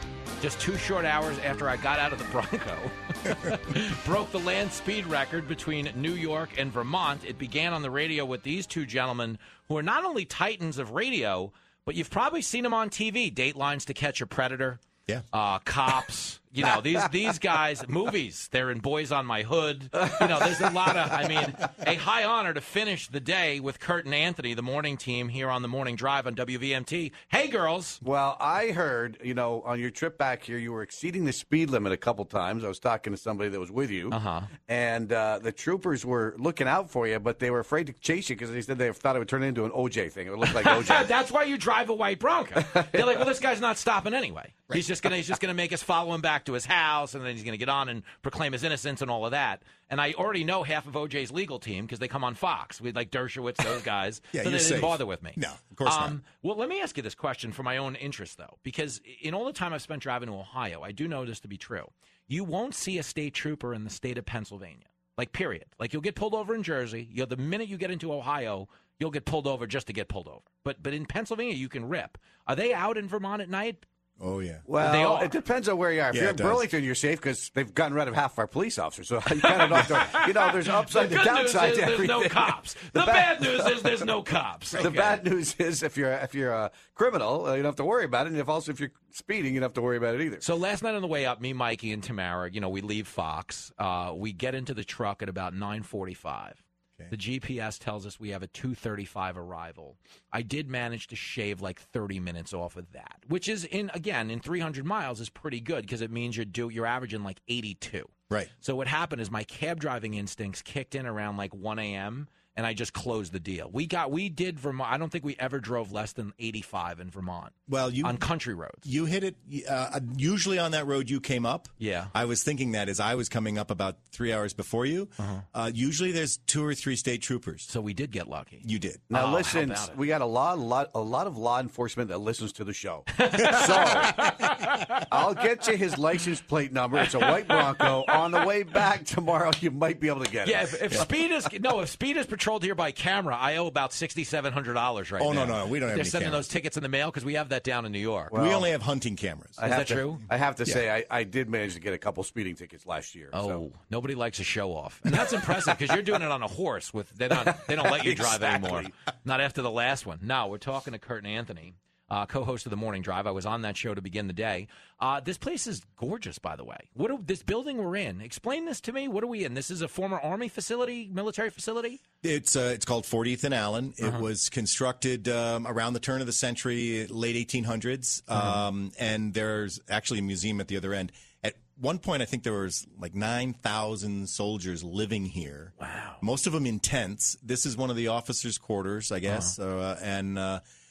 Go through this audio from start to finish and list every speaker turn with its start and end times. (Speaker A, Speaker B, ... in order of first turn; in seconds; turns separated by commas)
Speaker A: 0.4-28.0, Speaker B: 20.0-21.5, Speaker B: 28.0-41.1, Speaker A: 34.1-34.5, Speaker A: 40.5-73.8, Speaker B: 42.7-43.2, Speaker C: 54.3-56.2, Speaker C: 74.2-74.6, Speaker B: 74.7-84.1, Speaker A: 74.8-75.4, Speaker C: 76.1-76.7, Speaker A: 79.4-85.2, Speaker C: 84.8-85.1, Speaker B: 84.8-90.4, Speaker A: 90.4-118.9, Speaker C: 117.7-118.2, Speaker C: 118.8-127.7, Speaker A: 121.8-122.1, Speaker A: 127.7-130.0, Speaker C: 128.6-129.0, Speaker B: 129.1-134.2, Speaker A: 133.2-135.0, Speaker B: 135.1-141.1, Speaker A: 137.0-138.4, Speaker A: 140.4-148.3, Speaker C: 145.2-146.5, Speaker B: 148.3-148.7, Speaker C: 148.3-149.7, Speaker A: 149.6-150.2, Speaker B: 149.6-153.7, Speaker A: 153.3-172.0, Speaker B: 157.5-158.9, Speaker C: 172.2-190.6, Speaker A: 185.8-186.2, Speaker A: 189.3-189.5